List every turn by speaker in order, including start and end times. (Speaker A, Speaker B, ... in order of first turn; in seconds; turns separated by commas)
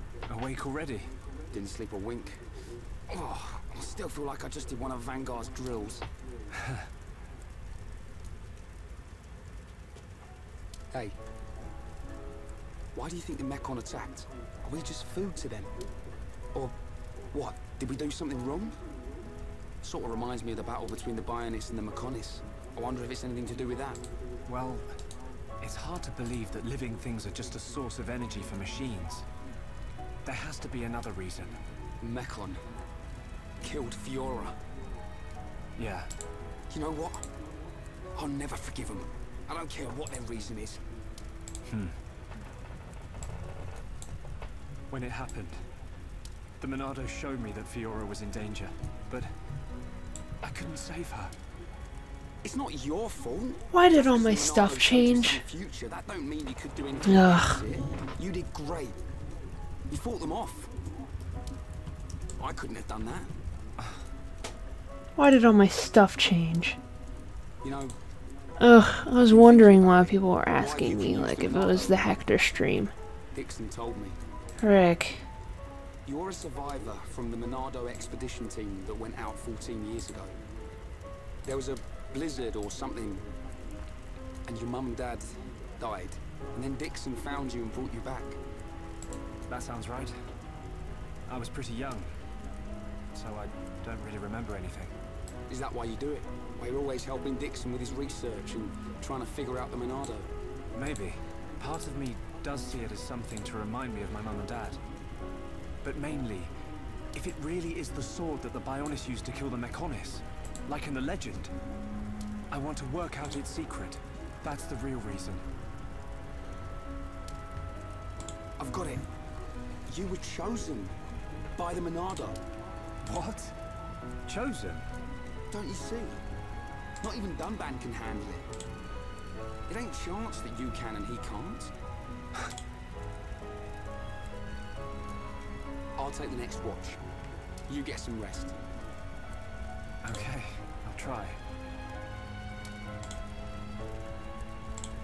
Speaker A: 0.3-1.1, Speaker B: 1.5-2.5, Speaker B: 3.1-6.1, Speaker A: 6.5-6.9, Speaker B: 10.9-11.2, Speaker B: 12.9-15.7, Speaker B: 17.3-18.8, Speaker B: 19.8-24.1, Speaker A: 24.5-25.0, Speaker A: 25.6-29.3, Speaker A: 30.2-31.6, Speaker B: 32.0-32.6, Speaker B: 33.6-34.6, Speaker A: 35.8-36.1, Speaker B: 36.7-37.3, Speaker B: 38.1-40.8, Speaker A: 41.7-42.0, Speaker A: 44.9-45.6, Speaker A: 46.6-49.3, Speaker A: 50.4-51.3, Speaker B: 52.4-59.0, Speaker C: 53.7-55.5, Speaker C: 57.1-57.6, Speaker B: 59.9-60.7, Speaker B: 62.4-63.4, Speaker C: 65.2-66.8, Speaker B: 67.6-67.9, Speaker C: 68.6-72.9, Speaker B: 69.3-72.2, Speaker B: 73.3-74.2, Speaker C: 74.6-75.3, Speaker B: 76.1-80.4, Speaker B: 81.4-83.3, Speaker B: 84.5-88.4, Speaker A: 89.5-90.2, Speaker A: 91.3-92.2, Speaker A: 93.1-94.9, Speaker B: 95.5-100.3, Speaker A: 100.8-104.8, Speaker A: 105.8-106.5, Speaker A: 107.2-111.5, Speaker A: 112.5-115.5, Speaker B: 118.6-119.1, Speaker B: 119.9-121.0, Speaker B: 121.6-122.4, Speaker A: 123.0-123.6, Speaker A: 124.3-124.9, Speaker B: 125.5-126.2, Speaker B: 127.0-128.5, Speaker B: 129.7-131.7, Speaker B: 136.0-137.0, Speaker B: 137.7-138.6, Speaker A: 140.0-141.4